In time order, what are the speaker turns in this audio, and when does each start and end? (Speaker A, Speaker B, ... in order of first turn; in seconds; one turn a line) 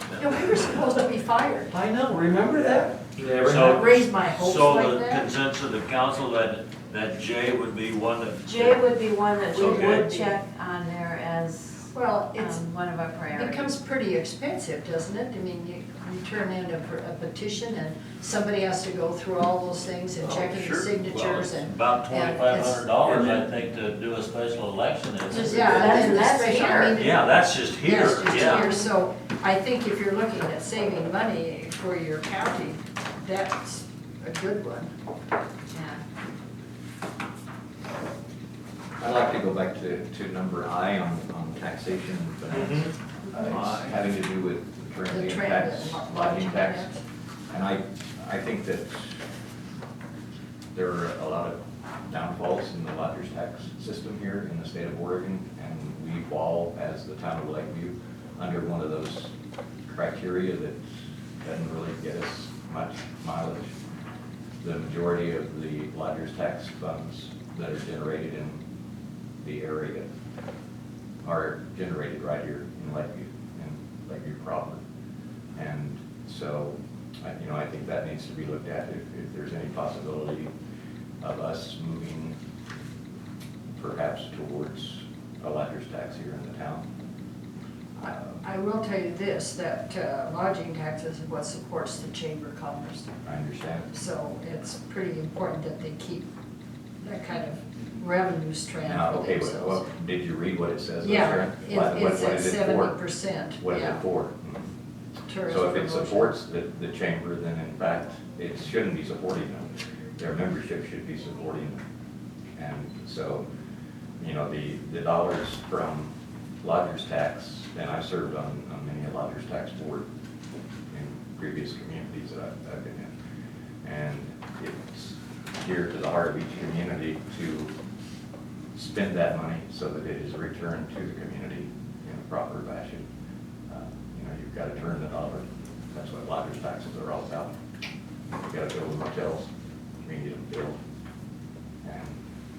Speaker A: 0.2-1.7
Speaker B: 1.7-3.9
Speaker C: 3.4-8.9
Speaker A: 3.6-5.3
Speaker D: 8.4-13.7
Speaker C: 9.5-10.1
Speaker A: 9.5-10.4
Speaker A: 11.9-12.6
Speaker A: 13.3-22.8
Speaker C: 20.2-26.2
Speaker B: 23.0-23.4
Speaker D: 25.3-27.0
Speaker A: 25.4-34.9
Speaker C: 26.9-28.6
Speaker D: 28.3-28.9
Speaker D: 35.7-36.0
Speaker E: 39.0-46.9
Speaker B: 42.6-42.9
Speaker A: 45.1-47.0
Speaker E: 47.5-49.1
Speaker E: 50.7-59.3
Speaker E: 59.9-60.8
Speaker E: 61.4-63.7
Speaker E: 64.6-68.6
Speaker E: 69.4-70.1
Speaker E: 71.2-74.8
Speaker E: 75.5-80.5
Speaker E: 81.2-82.4
Speaker E: 83.8-86.8
Speaker A: 88.0-93.1
Speaker E: 93.2-93.9
Speaker A: 93.9-96.3
Speaker A: 97.0-99.8
Speaker E: 98.8-102.9
Speaker A: 101.0-104.0
Speaker E: 103.6-104.7
Speaker A: 105.3-106.3
Speaker E: 105.5-111.8
Speaker E: 112.6-113.5
Speaker E: 114.2-120.1
Speaker E: 120.9-123.1
Speaker E: 123.8-127.7
Speaker E: 128.7-133.1
Speaker E: 133.7-137.5
Speaker E: 138.4-139.5
Speaker E: 140.0-140.8
Speaker E: 141.8-142.2